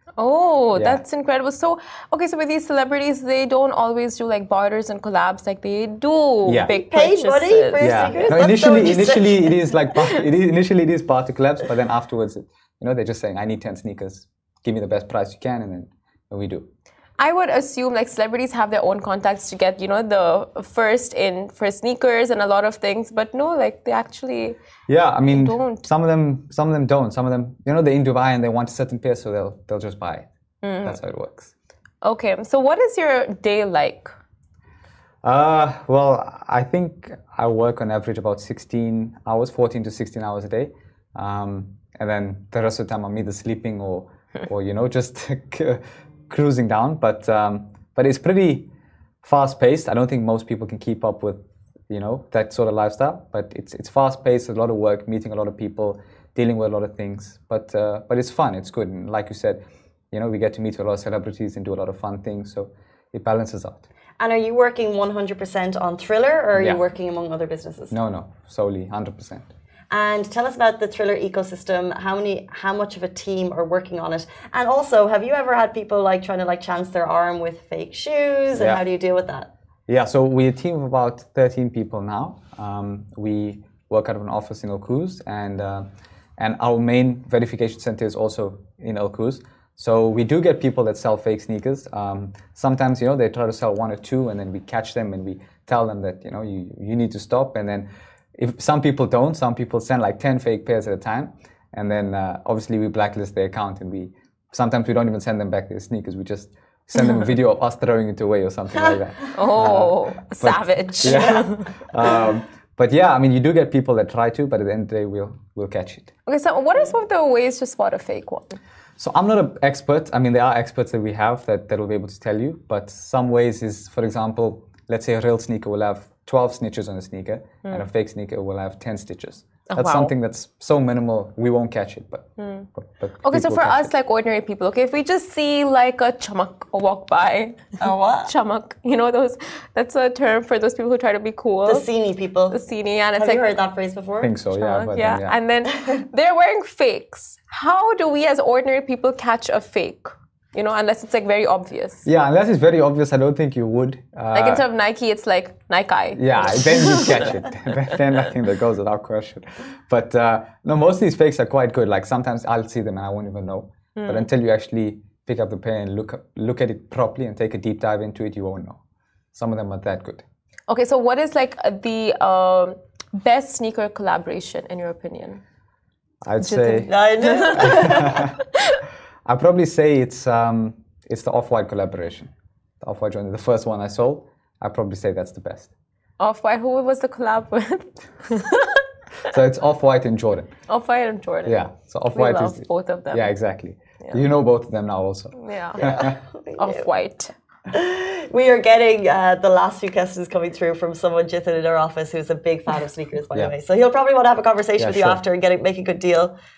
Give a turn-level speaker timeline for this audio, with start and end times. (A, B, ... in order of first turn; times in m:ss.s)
0:00.2-0:08.3 A
0:00.7-0:01.0 B
0:06.4-0:06.7 B
0:06.7-0:09.5 C
0:07.8-0:16.7 B
0:17.2-0:24.6 A
0:24.9-0:30.3 B
0:25.3-0:25.8 A
0:30.6-0:31.0 A
0:30.8-0:31.5 B
0:32.0-0:34.1 A
0:35.2-0:48.7 B
0:49.2-0:59.6 B
1:00.1-1:03.9 B
1:04.2-1:07.9 C
1:06.6-1:06.8 B
1:07.9-1:09.5 B
1:09.9-1:19.5 C
1:18.6-1:18.8 B
1:19.9-1:56.1 B
1:49.4-1:51.7 A
1:51.1-1:51.4 C
1:56.3-1:58.6 A
1:59.0-2:13.9 B
2:09.7-2:10.1 A
2:12.4-2:12.7 A
2:13.2-2:17.7 A
2:17.8-2:18.3 C
2:18.2-2:21.8 A
2:21.6-2:22.6 C
2:22.5-2:23.4 A
2:23.2-2:24.3 C
2:24.2-2:25.4 B
2:24.6-2:32.1 A
2:32.0-2:34.6 B
2:34.3-2:37.4 A
2:36.2-2:48.8 B
2:44.0-2:44.3 A
2:49.3-2:50.2 B
2:50.7-2:55.4 A
2:56.2-2:56.9 B
2:56.4-2:58.8 A
2:56.9-2:58.2 C
2:57.5-2:58.4 B
2:59.2-3:02.3 B
3:02.8-3:05.7 B
3:06.2-3:08.8 A
3:09.2-3:10.5 B
3:10.7-3:11.6 A
3:11.4-3:16.2 B
3:12.1-3:13.3 A
3:15.4-3:15.9 A
3:15.8-3:16.9 C
3:16.6-3:17.4 A
3:17.7-3:26.4 C
3:24.8-3:25.2 B